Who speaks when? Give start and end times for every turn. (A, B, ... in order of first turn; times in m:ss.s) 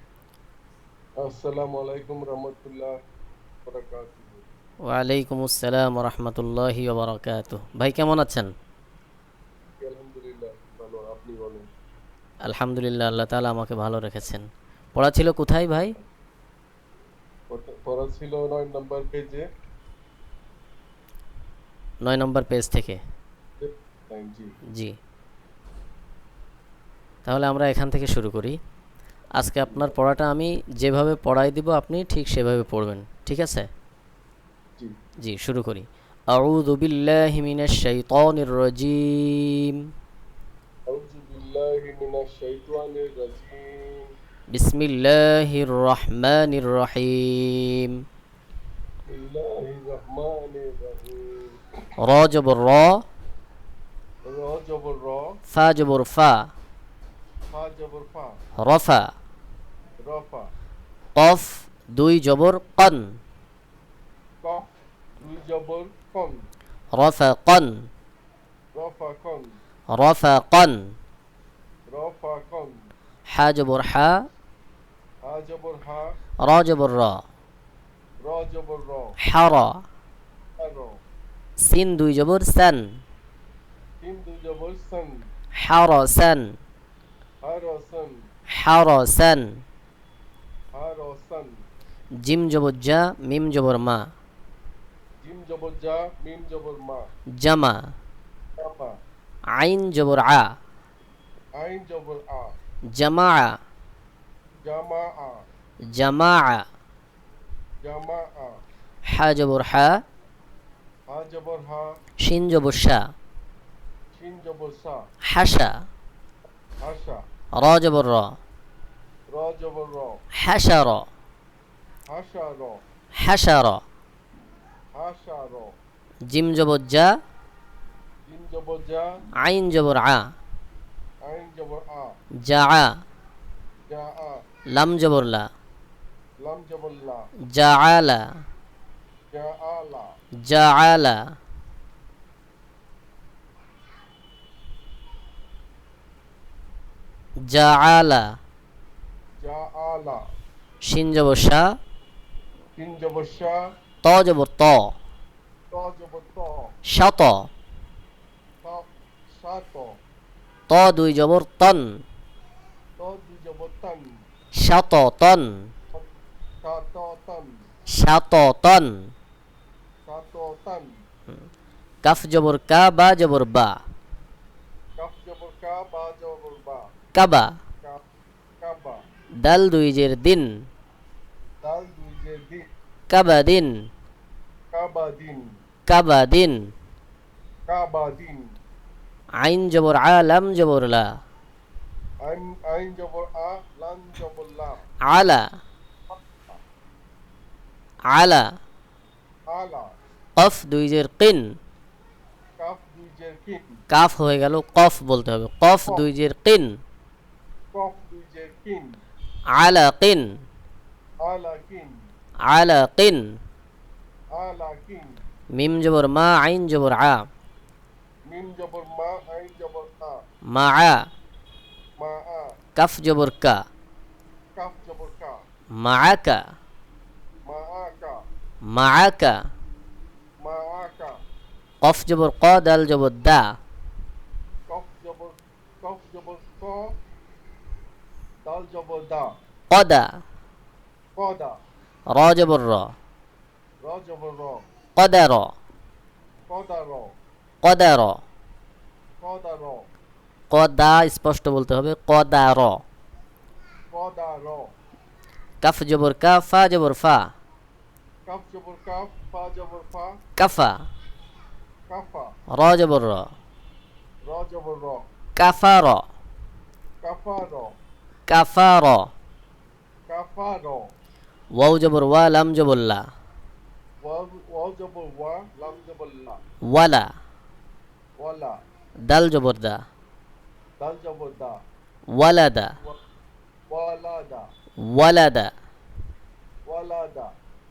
0:01.2-0:02.9 A
0:03.7-0:04.4 A
0:04.9-0:08.5 B
0:09.8-0:11.6 A
0:12.5-0:15.9 B
0:17.5-0:19.4 A
0:22.0-0:23.0 B
0:23.6-0:24.5 A
0:27.2-0:28.6 B
0:29.4-0:33.7 B
0:35.2-0:39.8 B
0:40.9-0:44.1 A
0:44.5-0:47.9 B
0:49.1-0:51.6 A
0:52.0-0:53.0 B
0:54.2-0:55.4 A
0:55.5-0:56.4 B
0:57.5-0:58.4 A
0:58.6-0:59.0 B
1:00.0-1:00.5 A
1:01.2-1:03.0 B
1:05.2-1:06.4 A
1:06.9-1:07.8 B
1:08.7-1:09.5 A
1:09.9-1:10.8 B
1:11.9-1:12.7 A
1:13.3-1:14.1 B
1:15.2-1:16.2 A
1:16.4-1:17.2 B
1:18.2-1:19.1 A
1:19.2-1:19.8 B
1:20.6-1:21.0 A
1:21.6-1:22.8 B
1:24.0-1:25.3 A
1:25.6-1:26.5 B
1:27.4-1:28.2 A
1:28.6-1:29.6 B
1:30.8-1:31.5 A
1:32.2-1:34.0 B
1:35.2-1:37.0 A
1:37.4-1:37.9 B
1:38.6-1:39.0 A
1:39.6-1:40.5 B
1:41.6-1:42.5 A
1:42.9-1:43.5 B
1:44.6-1:45.4 A
1:45.9-1:46.6 B
1:47.8-1:48.6 A
1:49.1-1:50.0 B
1:51.1-1:51.9 A
1:52.2-1:53.0 B
1:54.2-1:55.0 A
1:55.3-1:55.7 B
1:56.8-1:57.2 A
1:57.6-1:58.4 B
1:59.3-2:00.2 A
2:00.4-2:01.0 B
2:02.1-2:02.8 A
2:03.2-2:03.8 B
2:04.9-2:05.7 A
2:06.3-2:07.1 B
2:08.3-2:09.0 A
2:09.4-2:10.2 B
2:11.3-2:12.1 A
2:12.4-2:12.9 B
2:13.9-2:14.4 A
2:14.7-2:15.4 B
2:16.4-2:17.3 A
2:17.5-2:18.2 B
2:19.3-2:20.1 A
2:20.4-2:21.2 B
2:27.4-2:28.2 B
2:29.4-2:30.2 A
2:30.8-2:31.7 B
2:32.8-2:33.6 A
2:34.0-2:34.9 B
2:35.7-2:36.7 A
2:36.9-2:37.5 B
2:39.4-2:39.9 A
2:40.7-2:41.8 B
2:43.0-2:44.0 A
2:44.6-2:45.5 B
2:46.6-2:47.5 A
2:47.9-2:48.9 B
2:50.1-2:50.9 A
2:52.0-2:53.8 B
2:55.0-2:56.8 A
2:57.1-2:57.5 B
2:58.6-2:59.0 A
2:59.4-3:00.5 B
3:01.6-3:02.6 A
3:03.1-3:03.7 B
3:04.7-3:05.4 A
3:05.9-3:06.6 B
3:07.7-3:08.5 A
3:09.4-3:11.0 B
3:12.2-3:14.8 A
3:15.1-3:15.4 B
3:16.1-3:16.5 A
3:18.1-3:18.4 B
3:19.5-3:19.9 A
3:20.4-3:21.4 B
3:22.6-3:23.8 A
3:23.9-3:26.7 B
3:27.7-3:28.9 A
3:29.5-3:30.3 B
3:31.3-3:31.9 A
3:32.5-3:33.2 B
3:34.4-3:35.2 A
3:35.6-3:37.2 B
3:38.3-3:40.2 A
3:40.5-3:41.0 B
3:42.0-3:42.5 A
3:42.8-3:43.6 B
3:44.6-3:45.4 A
3:45.8-3:46.4 B
3:47.5-3:48.2 A
3:48.7-3:49.4 B
3:50.4-3:51.2 A
3:51.8-3:53.5 B
3:54.7-3:56.9 A
3:58.4-3:59.3 A
3:59.7-4:00.1 B
4:01.2-4:01.6 A
4:02.1-4:02.9 B
4:03.8-4:04.6 A
4:05.0-4:05.5 B
4:06.5-4:07.1 A
4:07.6-4:08.2 B
4:09.2-4:09.9 A
4:10.5-4:12.8 B
4:13.9-4:14.7 A
4:15.6-4:17.3 B
4:18.3-4:20.1 A
4:20.4-4:20.8 B
4:21.9-4:22.3 A
4:22.5-4:23.3 B
4:24.3-4:25.0 A
4:25.4-4:26.0 B
4:27.0-4:27.7 A
4:28.3-4:29.1 B
4:30.1-4:30.8 A
4:31.6-4:33.0 B
4:34.0-4:36.4 A
4:36.6-4:37.0 B
4:38.2-4:38.6 A
4:39.1-4:39.8 B
4:40.8-4:41.6 A
4:42.1-4:42.7 B
4:43.7-4:44.5 A
4:44.9-4:45.5 B
4:46.7-4:47.3 A